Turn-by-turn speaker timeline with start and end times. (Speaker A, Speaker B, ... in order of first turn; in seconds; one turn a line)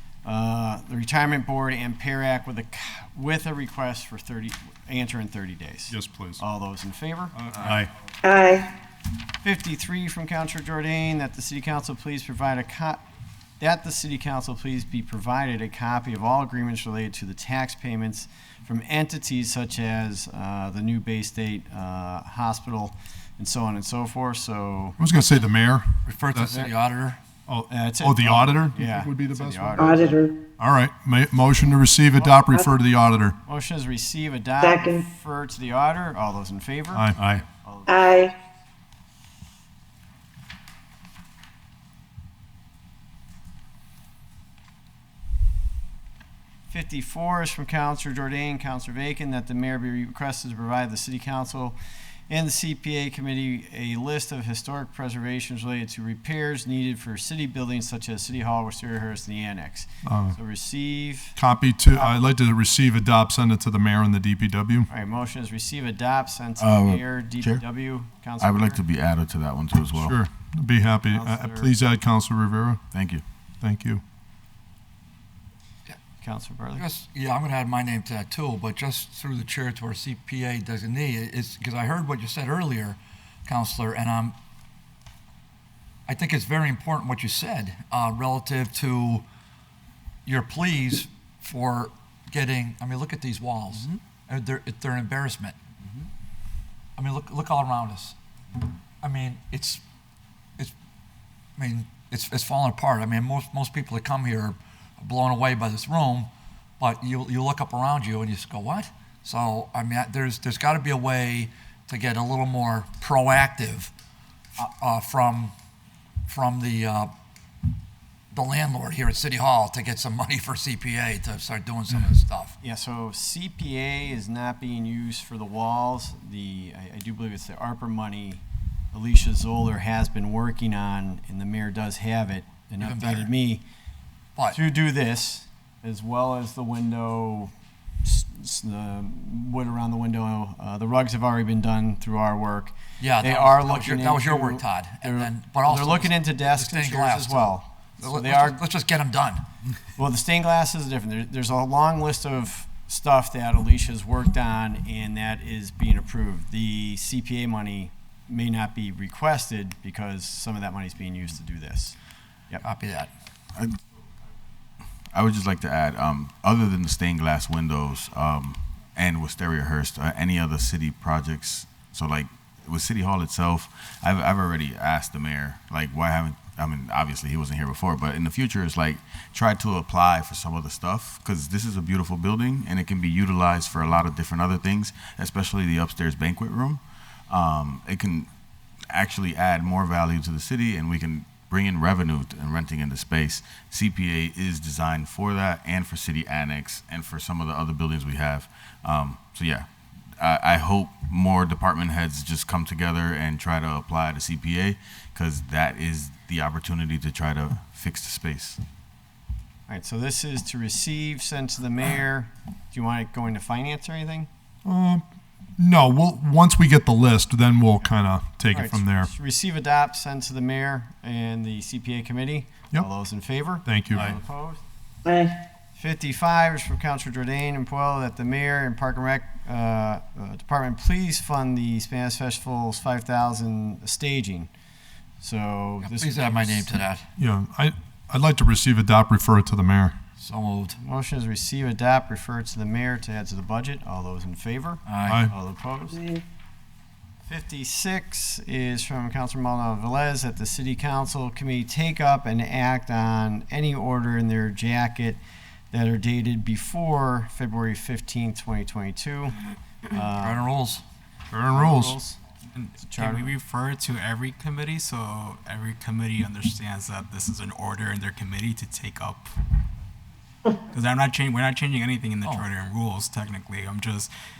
Speaker A: 0.2-7.3
Speaker B: 5.9-6.4
Speaker B: 7.3-7.9
Speaker C: 8.2-8.7
Speaker A: 9.4-13.0
Speaker A: 13.6-25.0
Speaker B: 25.0-26.5
Speaker D: 26.1-27.2
Speaker A: 26.3-26.7
Speaker B: 27.5-29.9
Speaker A: 27.7-30.2
Speaker C: 29.8-30.3
Speaker B: 30.6-33.4
Speaker A: 32.2-32.6
Speaker A: 33.5-38.1
Speaker C: 34.6-35.0
Speaker B: 36.9-37.4
Speaker C: 37.9-38.3
Speaker A: 46.7-51.8
Speaker A: 52.3-61.4
Speaker B: 60.0-60.4
Speaker B: 61.4-64.9
Speaker A: 61.9-62.3
Speaker A: 64.9-68.8
Speaker E: 66.6-67.6
Speaker E: 68.4-70.2
Speaker B: 70.0-72.8
Speaker A: 71.1-71.7
Speaker E: 72.9-73.2
Speaker B: 73.6-74.0
Speaker A: 76.2-76.8
Speaker D: 76.8-84.3
Speaker D: 86.1-89.2
Speaker D: 90.2-95.5
Speaker D: 97.0-98.2
Speaker D: 99.0-99.8
Speaker D: 101.6-113.9
Speaker D: 114.6-115.5
Speaker D: 116.3-117.1
Speaker D: 118.3-122.5
Speaker A: 122.6-133.6
Speaker D: 132.8-133.3
Speaker A: 134.5-137.5
Speaker A: 138.0-148.6
Speaker D: 143.0-149.4
Speaker A: 149.9-161.9
Speaker D: 162.6-163.1
Speaker E: 165.1-188.3
Speaker E: 188.9-199.7
Speaker E: 200.2-208.6
Speaker A: 209.7-214.3
Speaker B: 214.6-215.0
Speaker B: 215.6-219.1
Speaker A: 218.5-224.6
Speaker B: 223.7-224.1
Speaker C: 225.1-225.3
Speaker A: 225.7-234.5
Speaker A: 235.2-236.7
Speaker D: 235.8-237.1
Speaker B: 237.2-240.0
Speaker D: 240.2-240.8
Speaker A: 240.8-246.0
Speaker D: 244.8-245.2
Speaker B: 245.1-245.3
Speaker A: 247.2-255.2
Speaker A: 255.7-259.3
Speaker A: 259.9-260.4
Speaker D: 260.2-260.8
Speaker B: 261.3-261.9
Speaker A: 261.5-262.2
Speaker F: 262.5-269.4
Speaker A: 262.8-263.3
Speaker F: 270.7-274.1
Speaker D: 272.2-272.5